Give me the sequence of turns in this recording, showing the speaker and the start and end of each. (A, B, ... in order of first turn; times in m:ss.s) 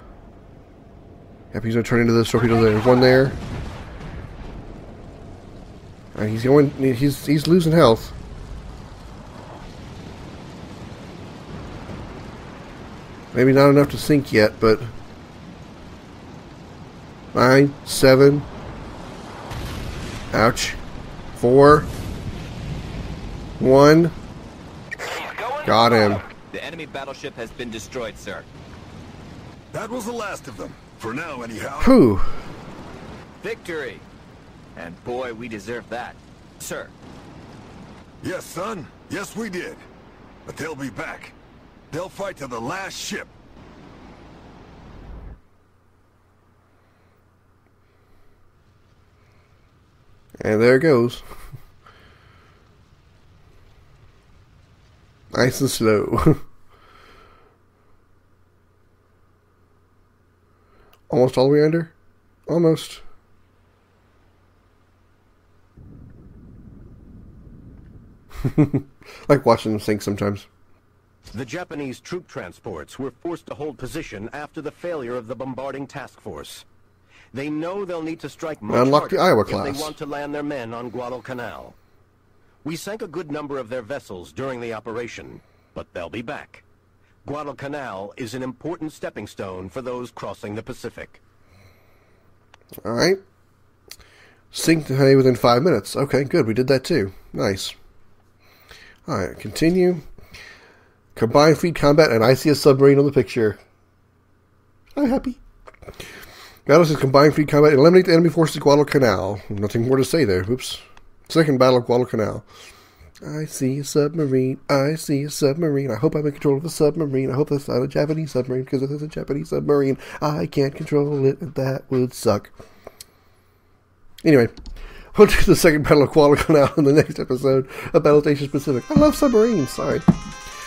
0:01.5-0:03.4 A
0:06.1-0:08.1 A
0:13.3-0:14.9 A
0:17.3-0:18.5 A
0:20.3-0:20.8 A
0:21.4-0:21.9 A
0:23.6-0:24.1 A
0:25.6-0:26.2 A
0:26.3-0:28.5 B
0:29.7-0:31.9 C
0:31.8-0:32.3 A
0:33.4-0:34.0 B
0:34.8-0:36.9 B
0:38.2-0:39.8 C
0:40.4-0:41.4 C
0:41.9-0:43.3 C
0:50.4-0:51.2 A
0:55.3-0:56.4 A
1:01.1-1:01.9 A
1:02.5-1:03.0 A
1:08.4-1:10.5 A
1:11.3-1:16.6 D
1:17.3-1:21.8 D
1:18.7-1:19.9 A
1:22.6-1:26.6 D
1:27.2-1:31.2 D
1:32.8-1:33.2 A
1:34.5-1:37.7 A
1:39.0-1:40.0 A
1:41.1-1:43.6 A
1:45.0-1:45.4 A
1:46.6-1:52.4 A
1:53.2-2:02.5 A
2:04.2-2:04.5 A
2:05.1-2:10.1 A